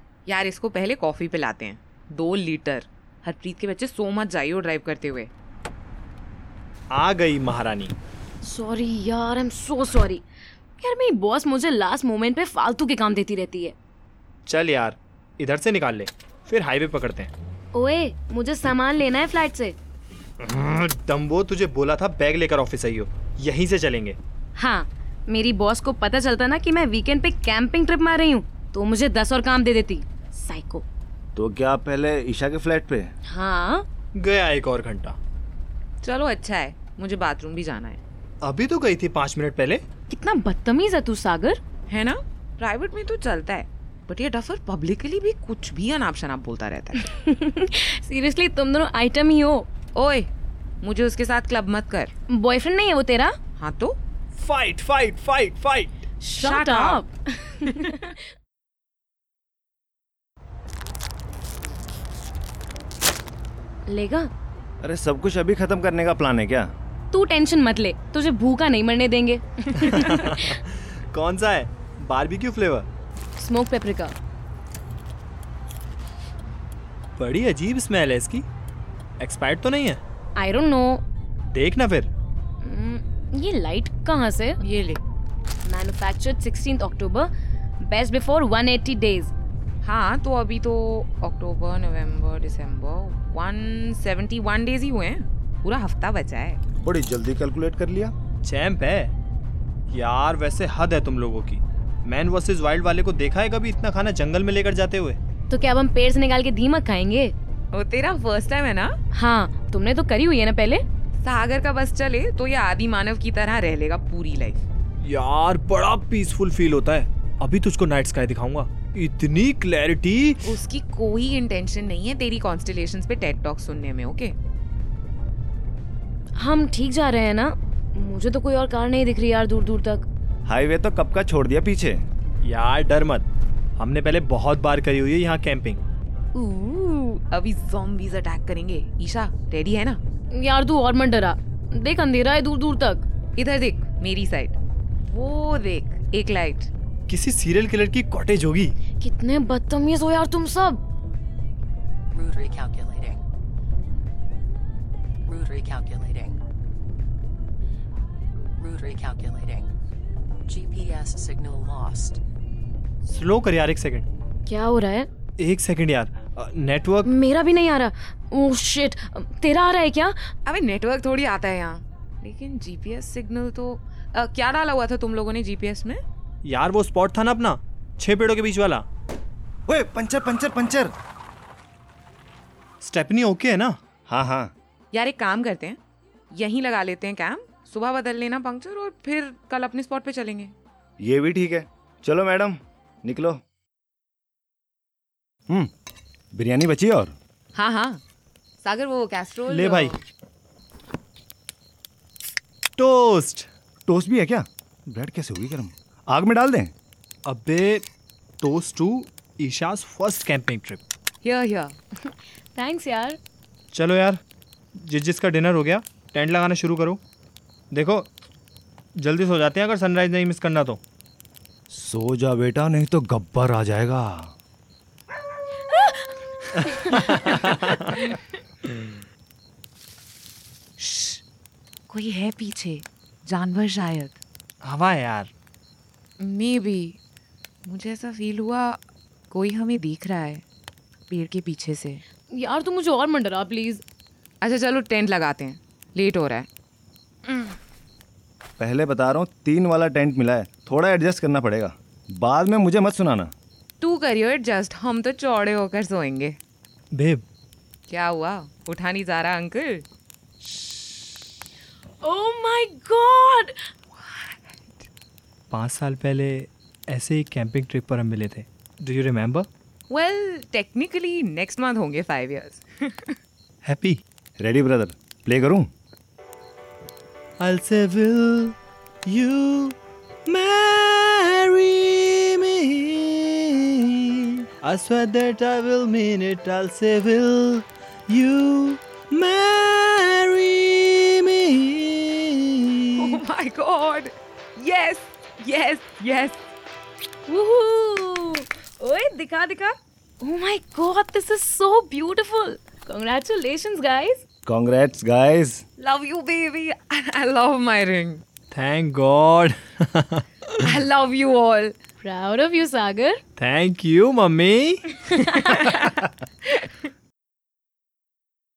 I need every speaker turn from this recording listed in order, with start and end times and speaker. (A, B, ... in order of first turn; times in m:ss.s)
0:00.3-0:05.3 A
0:06.9-0:07.9 B
0:08.4-0:10.2 C
0:10.8-0:13.8 C
0:14.5-0:17.3 B
0:17.7-0:19.8 C
0:20.4-0:24.2 B
0:24.6-0:30.8 C
0:31.4-0:33.1 D
0:33.3-0:33.9 C
0:34.2-0:35.2 B
0:36.0-0:38.0 A
0:38.4-0:39.8 B
0:40.1-0:41.6 C
0:41.9-0:47.1 A
0:47.0-0:49.7 C
0:49.9-0:50.3 A
0:50.8-0:52.1 A
0:52.3-0:53.4 C
0:53.6-0:54.0 A
0:54.3-0:56.0 B
0:56.2-0:58.2 C
0:56.4-0:57.0 A
1:03.9-1:04.3 C
1:04.8-1:06.7 D
1:07.1-1:10.6 C
1:09.8-1:12.9 B
1:13.4-1:14.1 C
1:17.2-1:18.4 B
1:19.2-1:20.0 B
1:20.4-1:21.0 C
1:21.5-1:22.1 B
1:22.6-1:24.6 C
1:24.6-1:25.0 A
1:25.6-1:27.3 C
1:27.8-1:29.3 C
1:29.8-1:36.6 A
1:36.8-1:38.1 D
1:38.4-1:39.1 B
1:39.9-1:45.2 B
1:45.5-1:47.3 C
1:47.7-1:49.0 A
1:49.1-1:50.8 C
1:51.2-1:54.6 A
1:55.0-2:00.5 B
2:00.4-2:04.4 A
2:06.4-2:10.1 C
2:10.5-2:12.0 D
2:12.4-2:13.3 B
2:13.8-2:15.8 B
2:16.3-2:17.2 C
2:17.3-2:20.0 A
2:20.3-2:23.0 C
2:23.4-2:26.7 A
2:27.1-2:28.8 B
2:29.0-2:30.8 C
2:32.1-2:33.2 E
2:35.3-2:36.4 E
2:38.6-2:39.7 E
2:40.5-2:42.2 E
2:43.0-2:44.1 B
2:44.5-2:45.1 C
2:45.4-2:47.1 B
2:47.1-2:50.3 C
2:50.5-2:56.0 A
2:56.4-2:58.8 B
2:59.7-3:00.9 D
3:02.8-3:03.8 B
3:04.1-3:04.5 D
3:04.9-3:05.8 A
3:06.3-3:10.5 A
3:11.0-3:13.4 D
3:16.3-3:17.1 D
3:17.6-3:18.0 A
3:18.6-3:20.0 A
3:19.5-3:20.0 B
3:22.8-3:23.5 B
3:23.9-3:26.7 D
3:27.2-3:27.8 B
3:28.4-3:30.8 B
3:31.2-3:31.7 A
3:32.6-3:33.2 C
3:33.7-3:34.2 B
3:34.7-3:37.0 B
3:37.7-3:38.1 B
3:39.0-3:40.8 B
3:41.7-3:44.3 D
3:45.7-3:46.1 C
3:46.7-3:47.0 C
3:46.9-3:48.0 B
3:48.7-3:49.0 B
3:50.8-3:51.2 A
3:51.9-3:54.2 A
3:54.6-3:55.3 B
3:56.2-3:57.0 A
3:57.7-4:00.4 A
4:01.1-4:02.0 A
4:02.3-4:03.8 C
4:04.4-4:06.5 A
4:07.3-4:07.5 A
4:08.6-4:13.3 D
4:13.8-4:16.4 A
4:16.9-4:17.2 B
4:17.9-4:19.8 A
4:22.0-4:23.7 C
4:25.5-4:29.5 B
4:29.9-4:33.2 A
4:33.6-4:34.0 B
4:34.4-4:35.7 D
4:37.4-4:38.6 B
4:39.1-4:53.2 B
4:53.0-4:56.4 A
4:57.3-5:04.2 C
5:04.5-5:05.6 D
5:05.8-5:08.2 A
5:08.5-5:10.8 B
5:10.6-5:11.8 A
5:12.0-5:13.2 C
5:13.4-5:14.8 B
5:15.2-5:16.7 A